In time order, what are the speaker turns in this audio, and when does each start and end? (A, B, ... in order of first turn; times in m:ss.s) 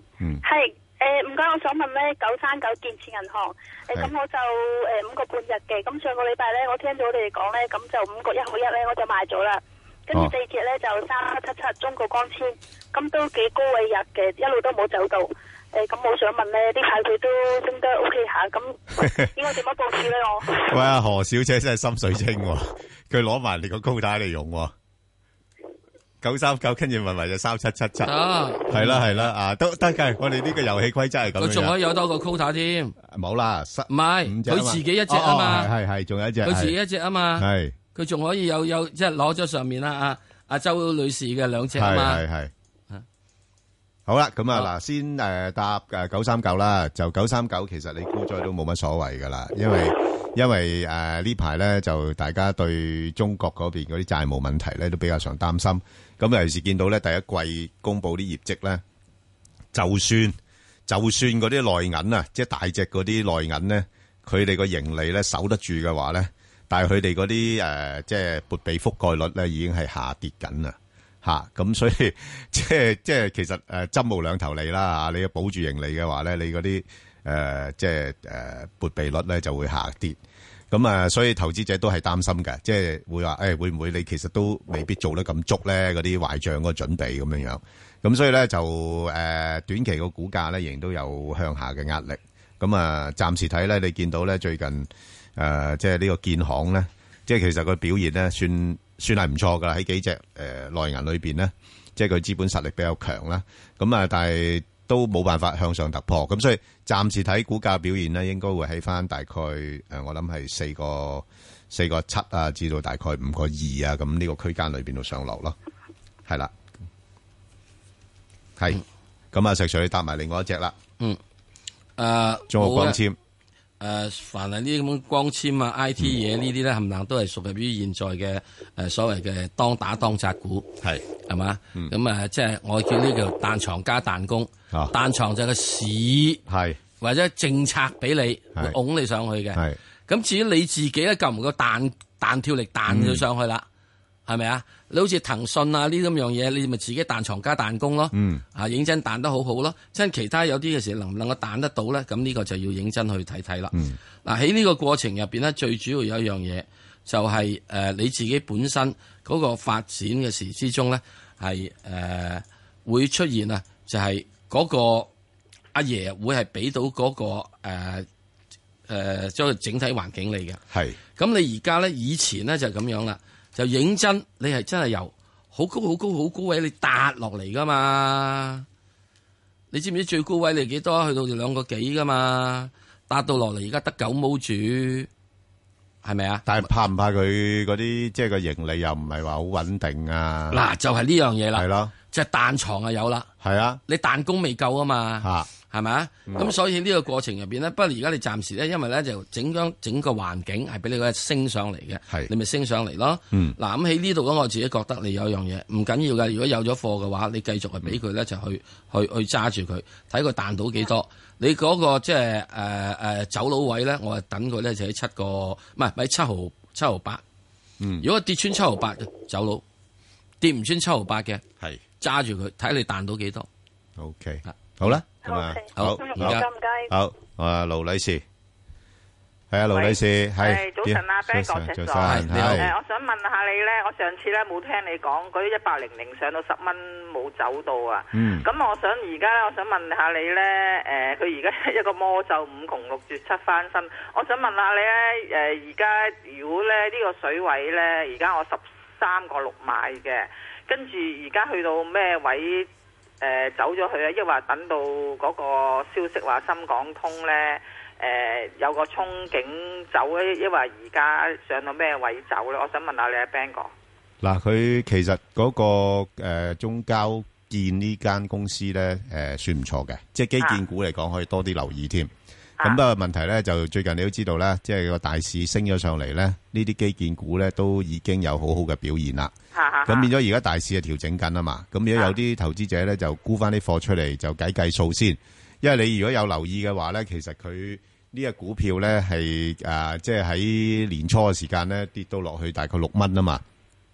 0:00.4-0:20.8 A
0:19.0-0:19.3 B
0:20.5-0:24.7 B
0:26.2-0:28.1 B
0:28.0-0:29.3 C
0:28.7-0:31.8 B
0:31.4-0:33.0 C
0:33.0-0:36.8 B
0:33.9-0:35.7 C
0:36.4-0:42.2 C
0:37.4-0:37.8 B
0:41.8-0:42.5 B
0:44.0-0:58.8 B
0:59.7-1:20.2 B
1:20.7-1:55.6 B
1:56.3-1:56.5 B
1:59.3-2:00.7 B
2:02.0-2:03.0 C
2:02.5-2:03.2 B
2:03.8-2:10.7 C
2:11.3-2:16.4 C
2:16.5-2:16.8 B
2:17.0-2:23.6 C
2:22.9-2:23.2 B
2:24.3-2:45.1 C
2:28.1-2:28.4 B
2:33.7-2:34.0 B
2:45.7-2:48.1 C
2:48.9-2:50.6 C
2:50.7-2:51.0 B
2:51.2-2:58.6 C
2:59.7-3:05.1 C
3:06.0-3:06.7 C
3:06.4-3:10.6 B
3:10.5-3:13.3 C
3:11.5-3:11.9 B
3:13.4-3:13.8 B
3:13.9-3:37.2 C
3:15.2-3:15.5 B
3:23.3-3:23.6 B
3:37.8-3:38.1 B
3:38.0-3:39.6 C
3:40.4-3:41.4 C
3:42.0-3:43.5 C
3:44.0-3:48.2 B
3:44.4-3:45.0 C
3:45.2-3:46.9 A
3:45.7-3:46.4 C
3:49.5-3:52.7 B
3:49.7-4:12.7 D
3:52.0-3:52.6 C
3:58.1-3:58.5 B
4:13.2-4:23.7 D
4:24.2-4:39.3 B
4:39.6-4:40.1 D
4:39.9-4:53.4 B